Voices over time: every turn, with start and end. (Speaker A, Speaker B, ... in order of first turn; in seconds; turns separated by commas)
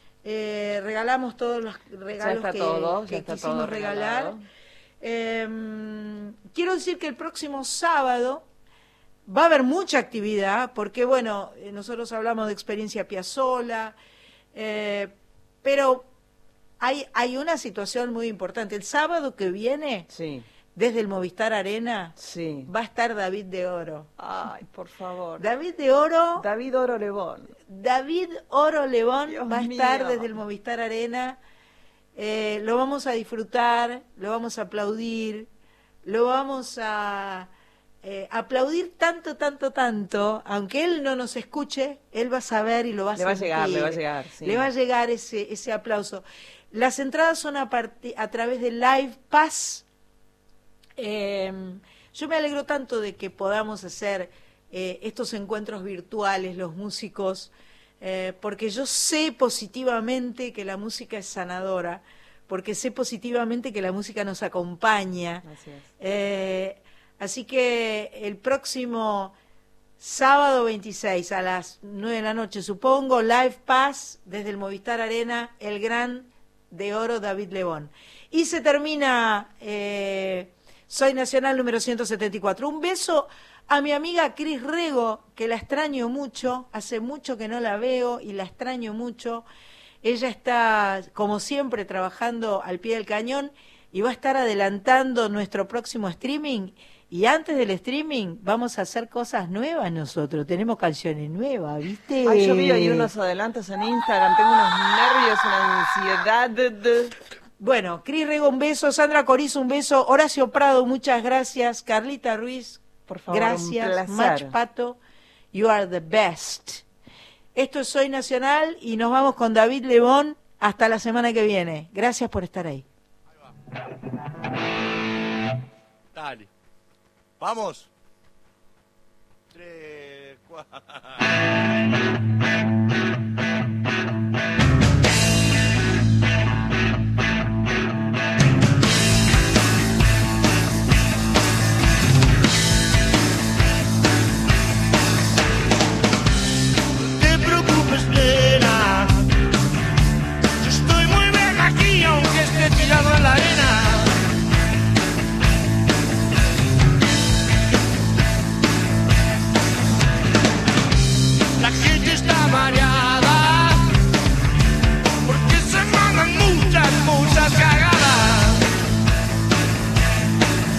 Speaker A: 0.2-4.3, Speaker B: 2.2-4.4, Speaker A: 5.0-8.4, Speaker A: 9.3-13.9, Speaker A: 14.5-16.1, Speaker A: 16.8-20.1, Speaker B: 20.1-20.4, Speaker A: 20.7-22.1, Speaker B: 22.2-22.7, Speaker A: 22.7-24.1, Speaker B: 24.2-25.4, Speaker A: 25.4-26.4, Speaker B: 26.4-27.5, Speaker A: 27.7-31.4, Speaker B: 29.3-30.3, Speaker A: 32.1-35.5, Speaker A: 36.0-37.5, Speaker A: 38.0-49.8, Speaker B: 43.1-44.7, Speaker A: 51.0-65.4, Speaker B: 65.4-65.9, Speaker A: 66.0-69.3, Speaker A: 70.0-89.4, Speaker A: 90.0-103.1, Speaker B: 102.2-107.1, Speaker A: 107.6-115.0, Speaker B: 113.1-114.5, Speaker A: 115.5-116.8, Speaker A: 117.5-122.8, Speaker C: 126.2-126.5, Speaker C: 127.4-127.8, Speaker C: 129.7-130.5, Speaker C: 147.2-149.2, Speaker C: 150.6-154.1, Speaker C: 161.6-163.8, Speaker C: 165.2-168.6